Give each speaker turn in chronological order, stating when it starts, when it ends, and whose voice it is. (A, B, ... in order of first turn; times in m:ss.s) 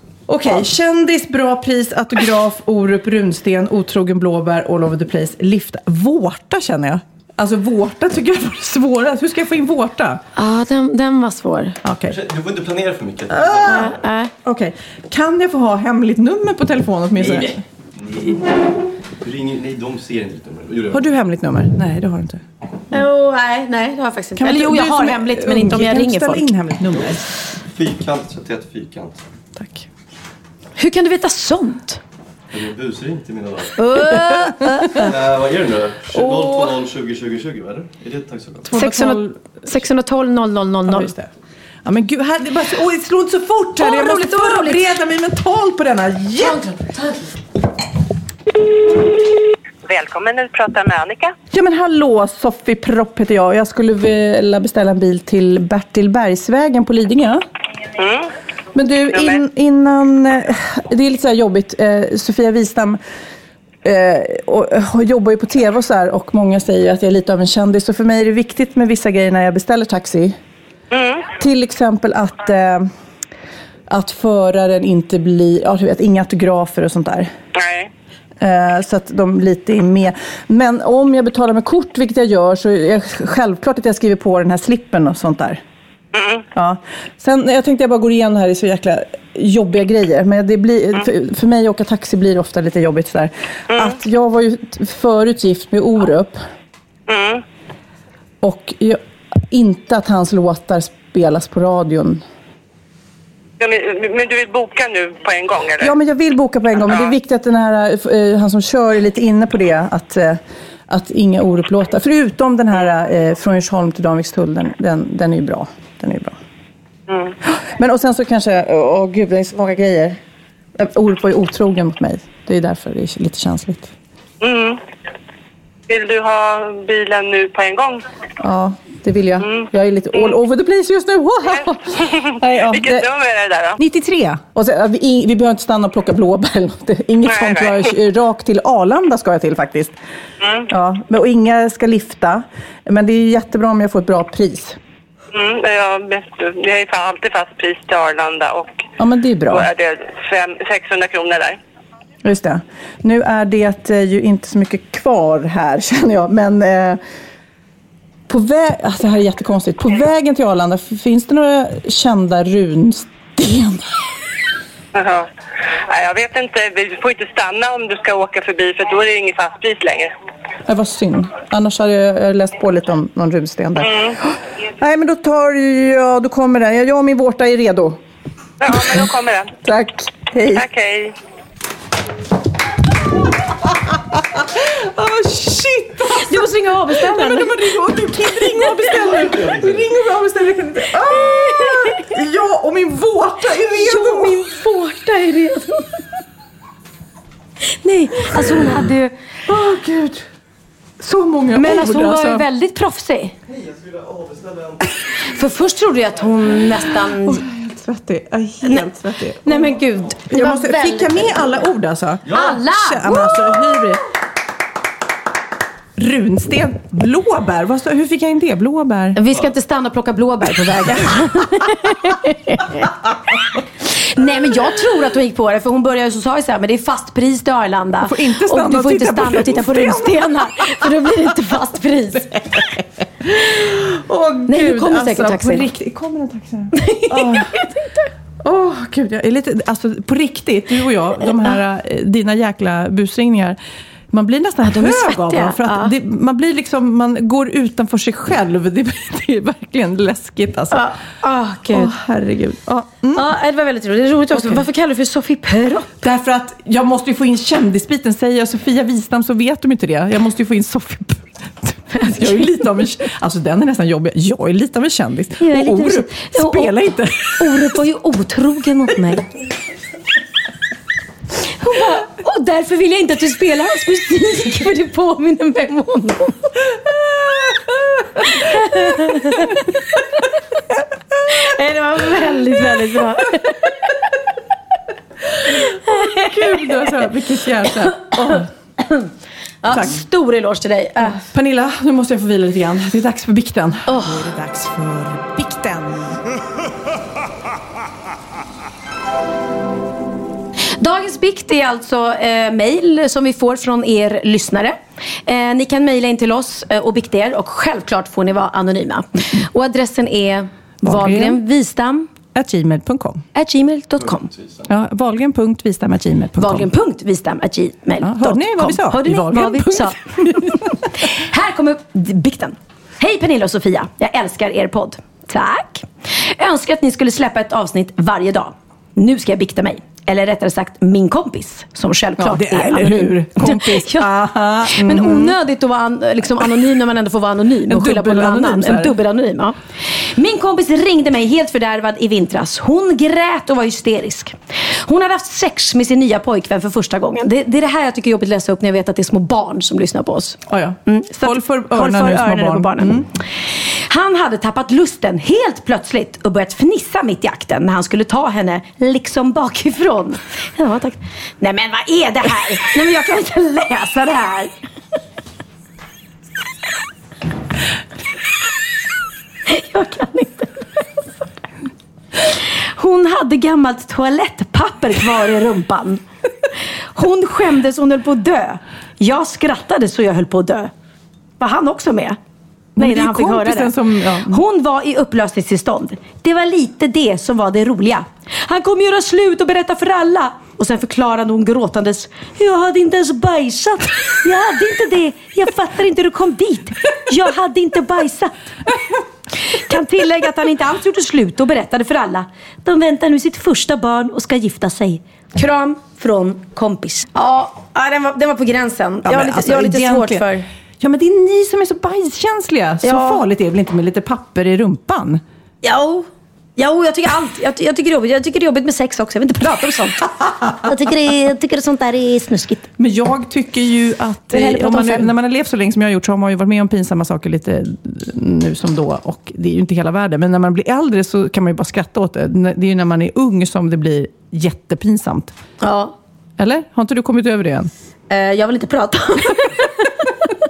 0:00.3-0:10.2 A
0:10.4-0:11.8 B
0:11.8-0:12.1 A
0:12.1-0:13.9 C
0:13.3-0:13.8 A
0:13.7-0:14.3 B
0:14.4-0:17.6 A
0:17.2-0:18.4 C
0:19.2-0:21.0 C
0:20.9-0:22.4 A
0:22.9-0:26.5 B
0:24.4-0:27.2 A
0:27.7-0:29.2 C
0:29.6-0:29.8 A
0:30.8-0:32.0 B
0:32.5-0:33.8 C
0:33.8-0:35.1 B
0:35.0-0:38.7 C
0:36.1-0:36.8 A
0:38.6-0:39.6 A
0:38.8-0:41.1 B
0:40.9-0:41.3 A
0:41.8-0:46.6 A
0:43.8-0:44.8 B
0:46.4-0:47.3 B
0:49.8-0:51.3 D
0:51.5-0:57.4 A
0:58.0-0:58.3 D
0:58.7-1:03.0 A
0:59.1-0:59.4 D
1:03.8-1:10.3 A
1:10.9-1:11.3 D
1:11.4-1:12.9 A
1:13.9-1:17.3 A
1:17.5-1:17.9 D
1:18.4-1:25.6 A
1:26.1-1:26.4 D
1:26.5-1:36.4 A
1:33.7-1:34.0 D
1:37.1-1:37.4 D
1:38.4-1:39.0 A
1:39.5-1:42.2 A
1:43.6-1:45.9 D
1:45.8-1:50.4 A
1:50.9-1:56.4 A
1:57.1-1:57.3 D
1:57.5-2:00.2 A
2:00.8-2:03.9 A
2:04.4-2:04.8 D
2:05.9-2:08.0 D
2:08.4-2:13.0 A
2:09.4-2:10.4 D
2:11.5-2:13.8 D
2:13.8-2:19.9 A
2:17.2-2:17.9 D
2:20.4-2:20.7 D
2:20.7-2:24.8 A
2:25.3-2:28.8 D
2:29.0-2:29.7 A
2:29.5-2:31.6 D
2:32.2-2:37.0 A
2:38.3-2:43.9 A
2:44.9-2:45.3 D
2:45.9-2:50.1 D
2:50.7-2:53.9 A
2:53.8-2:54.2 D
2:54.8-2:58.0 A
2:58.6-2:59.5 D
2:58.7-2:59.0 A
2:59.6-3:00.6 A
3:00.5-3:01.1 D
3:04.6-3:14.5 A
3:06.2-3:07.7 B
3:08.3-3:09.1 B
3:09.2-3:09.8 C
3:11.0-3:12.0 B
3:13.7-3:15.9 B
3:17.7-3:19.1 B
3:19.4-3:20.2 A
3:21.0-3:22.4 A
3:21.5-3:23.3 B
3:23.5-3:24.8 C
3:25.3-3:27.4 B
3:27.2-3:29.8 A
3:29.4-3:31.5 B
3:30.3-3:34.0 A
3:32.3-3:34.0 B
3:36.0-3:39.2 A
3:39.1-3:42.9 B
3:43.9-3:52.7 B
3:48.0-3:50.7 A
3:53.2-3:57.5 A
3:54.5-3:55.6 B
3:56.8-3:58.1 B
3:58.4-4:03.6 A
4:04.1-4:10.9 A
4:04.6-4:05.9 B
4:10.7-4:11.9 B
4:11.7-4:13.2 A
4:13.1-4:15.9 B
4:14.3-4:14.6 A
4:16.0-4:27.8 A
4:25.4-4:26.9 B
4:27.4-4:29.3 B
4:31.6-4:36.4 B
4:38.3-4:39.6 B
4:41.3-4:43.6 B
4:45.9-4:46.9 B
4:46.1-4:48.5 A
4:48.2-4:49.0 B
4:49.6-4:51.2 B
4:49.7-4:50.0 A
4:51.0-4:56.2 A
4:53.9-4:54.3 B
5:00.8-5:12.1 B
5:10.8-5:11.4 A
5:12.3-5:13.2 A
5:13.3-5:14.3 B
5:14.4-5:14.6 C
5:14.7-5:16.7 A
5:16.4-5:34.0 B
5:18.0-5:20.6 A
5:32.2-5:35.3 A
5:34.7-5:53.2 B
5:37.7-5:38.9 A
5:50.5-5:53.1 A
5:53.9-6:04.5 B
6:09.5-6:10.5 B
6:12.3-6:16.0 B
6:16.9-6:20.7 B
6:21.4-6:22.2 B
6:22.8-6:24.4 A
6:22.8-6:38.3 B
6:39.5-6:50.4 B
6:49.0-6:50.2 A
6:50.8-6:55.2 A
6:52.8-6:53.2 B
6:55.6-7:02.7 B
7:02.8-7:15.3 A
7:04.3-7:05.1 B
7:15.6-7:15.9 B
7:16.4-7:17.7 A
7:18.1-7:20.1 B